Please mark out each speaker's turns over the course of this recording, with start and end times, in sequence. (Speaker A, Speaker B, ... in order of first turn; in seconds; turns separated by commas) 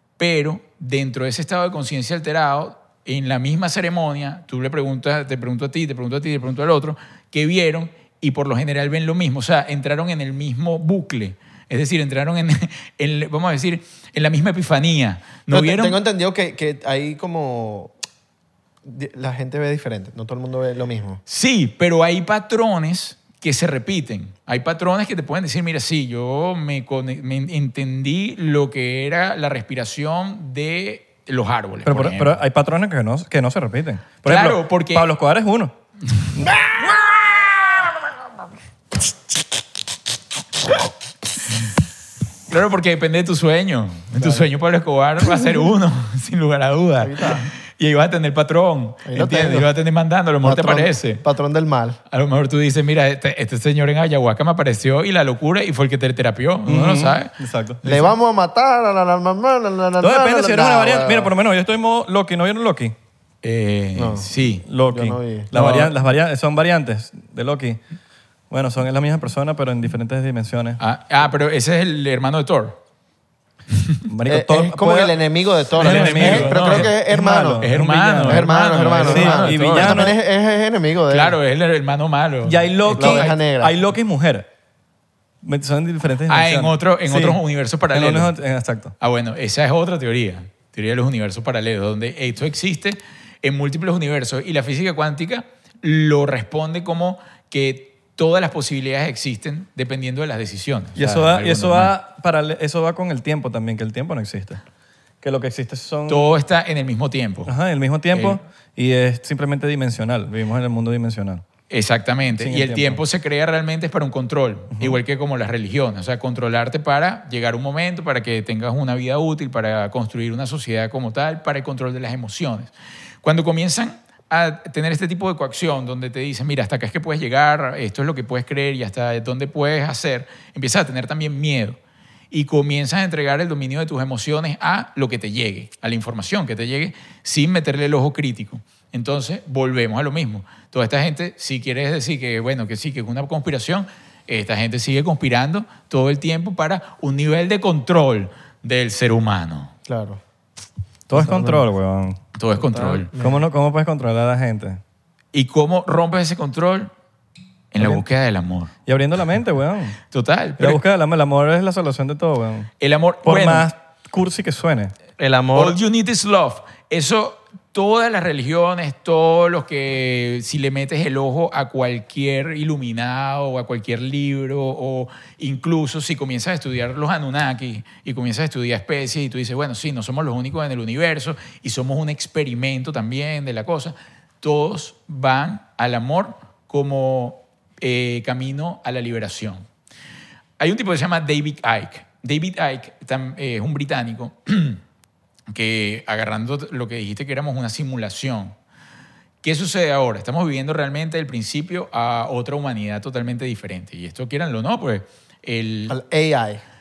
Speaker A: 0.2-16.0, Speaker B: 15.5-17.9, Speaker B: 18.8-21.2, Speaker A: 21.3-32.4, Speaker C: 31.9-35.7, Speaker A: 34.2-35.1, Speaker A: 42.5-51.2, Speaker B: 44.2-44.5, Speaker B: 47.0-47.5, Speaker B: 49.1-49.7, Speaker B: 50.4-52.0, Speaker A: 52.1-57.3, Speaker C: 56.7-57.8, Speaker A: 57.8-58.1, Speaker B: 57.8-61.3, Speaker C: 60.0-62.9, Speaker A: 63.4-64.6, Speaker B: 64.0-64.3, Speaker C: 64.6-67.8, Speaker B: 64.9-65.5, Speaker A: 65.5-65.9, Speaker C: 68.5-70.8, Speaker A: 70.8-72.8, Speaker A: 73.7-74.0, Speaker C: 74.1-75.2, Speaker B: 74.3-77.7, Speaker C: 75.8-80.1, Speaker A: 75.8-76.9, Speaker A: 77.6-80.1, Speaker B: 78.2-81.4, Speaker A: 81.1-83.3, Speaker C: 82.4-84.5, Speaker B: 83.0-83.8, Speaker C: 85.4-87.4, Speaker A: 86.3-88.3, Speaker C: 87.9-88.9, Speaker A: 89.0-101.9, Speaker C: 101.0-104.6, Speaker C: 105.2-106.3, Speaker A: 106.1-107.5, Speaker C: 107.5-111.4, Speaker A: 108.1-108.4, Speaker A: 111.7-122.7, Speaker C: 112.3-113.0, Speaker A: 123.2-131.8, Speaker A: 132.3-149.7, Speaker B: 149.9-150.2, Speaker C: 151.1-152.2, Speaker B: 151.1-151.6, Speaker A: 152.3-153.1, Speaker B: 152.6-153.4, Speaker C: 153.2-154.8, Speaker A: 155.3-156.9, Speaker A: 157.7-158.7, Speaker C: 158.9-160.0, Speaker A: 160.1-160.8, Speaker C: 160.6-162.7, Speaker A: 162.8-163.7, Speaker C: 163.2-164.9, Speaker B: 165.2-165.8, Speaker A: 165.5-189.7, Speaker A: 190.6-194.8, Speaker A: 195.5-198.6, Speaker A: 199.4-206.0, Speaker B: 205.9-206.6